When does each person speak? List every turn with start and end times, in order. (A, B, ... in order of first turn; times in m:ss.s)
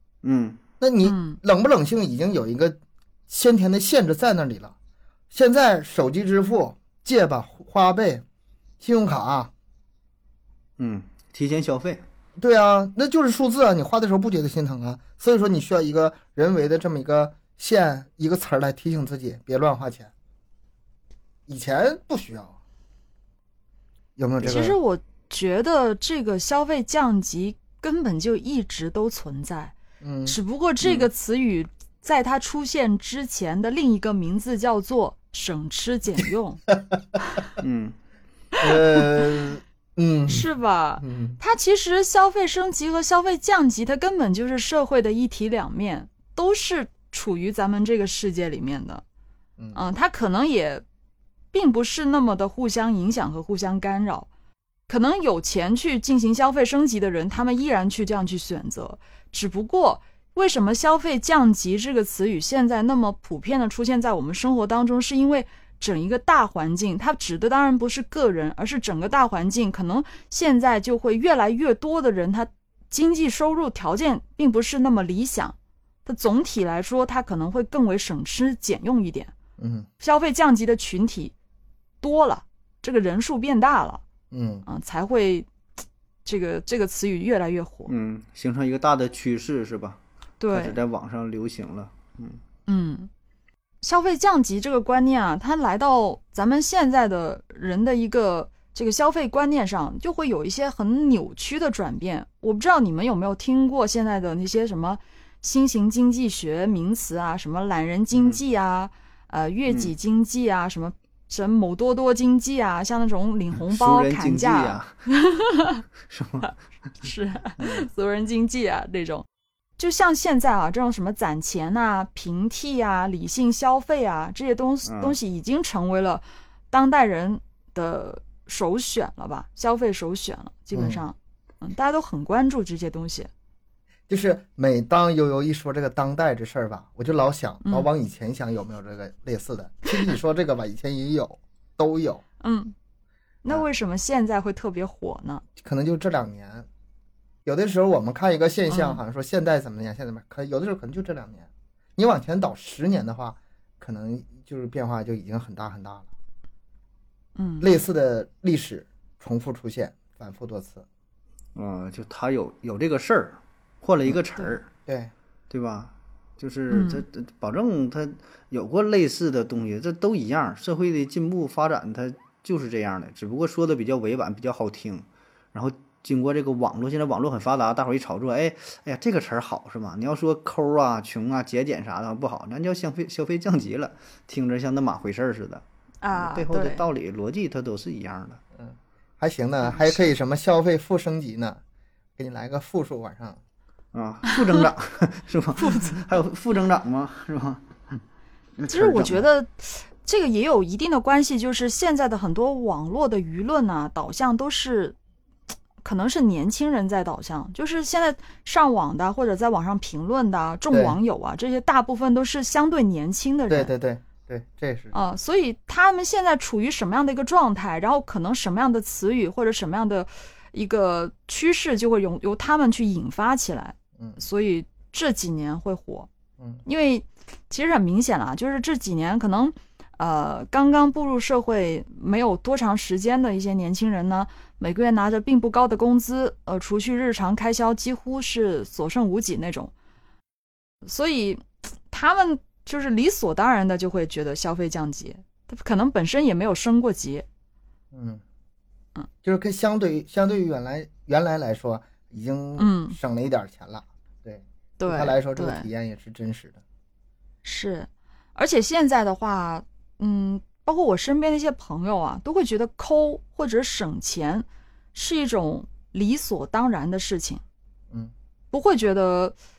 0:00.2-0:00.6 A
0:00.8-0:04.7 B
0:01.0-0:01.4 C
0:05.3-0:08.2 B
0:08.8-0:09.5 B
0:10.8-0:12.0 A
0:12.4-0:20.1 B
0:21.5-0:22.5 B
0:24.2-0:24.8 B
0:24.4-0:29.7 C
0:30.0-0:30.4 B
0:30.2-0:36.6 C
0:30.8-0:31.1 A
0:37.6-0:37.9 A
0:38.6-0:40.5 B
0:38.9-0:39.2 C
0:40.3-0:49.0 C
0:41.0-0:41.4 B
0:49.7-0:50.8 C
0:51.5-0:54.3 C
0:54.9-1:19.3 C
1:19.6-1:19.9 B
1:20.0-1:21.3 C
1:22.0-1:24.0 C
1:24.3-1:24.6 B
1:24.6-1:25.5 C
1:26.2-1:27.9 C
1:27.9-1:30.0 A
1:30.4-1:30.8 C
1:30.5-1:32.4 A
1:32.7-1:33.1 C
1:33.8-1:55.8 C
1:48.1-1:48.4 A
1:49.7-1:49.9 A
1:53.6-1:55.0 A
1:56.1-1:56.6 A
1:57.0-1:59.2 C
1:57.6-1:57.9 A
1:59.8-2:13.3 C
2:04.8-2:05.2 A
2:10.7-2:11.0 B
2:14.1-2:22.2 B
2:22.4-2:22.7 C
2:23.4-2:25.4 C
2:25.6-2:26.7 B
2:27.4-2:36.1 B
2:28.7-2:29.0 C
2:37.4-2:37.7 C
2:37.6-2:40.8 B
2:41.6-2:44.7 A
2:44.9-2:45.1 B
2:45.5-3:05.6 A
2:46.7-2:47.0 C
3:06.0-3:06.8 C
3:06.1-3:08.4 A
3:08.6-3:11.6 B
3:09.7-3:10.0 C
3:12.2-3:13.4 B
3:13.9-3:18.0 A
3:14.3-3:14.6 C
3:15.6-3:16.0 C
3:18.6-3:19.2 A
3:18.7-3:25.0 C
3:25.8-3:33.7 C
3:30.7-3:31.0 B
3:33.5-3:34.9 B
3:34.9-3:46.1 C
3:46.6-3:59.7 C
4:00.8-4:07.2 C
4:07.9-4:08.2 B
4:09.2-4:16.6 B
4:12.6-4:13.0 C
4:14.8-4:15.7 C
4:17.4-4:27.4 C
4:28.5-4:29.3 C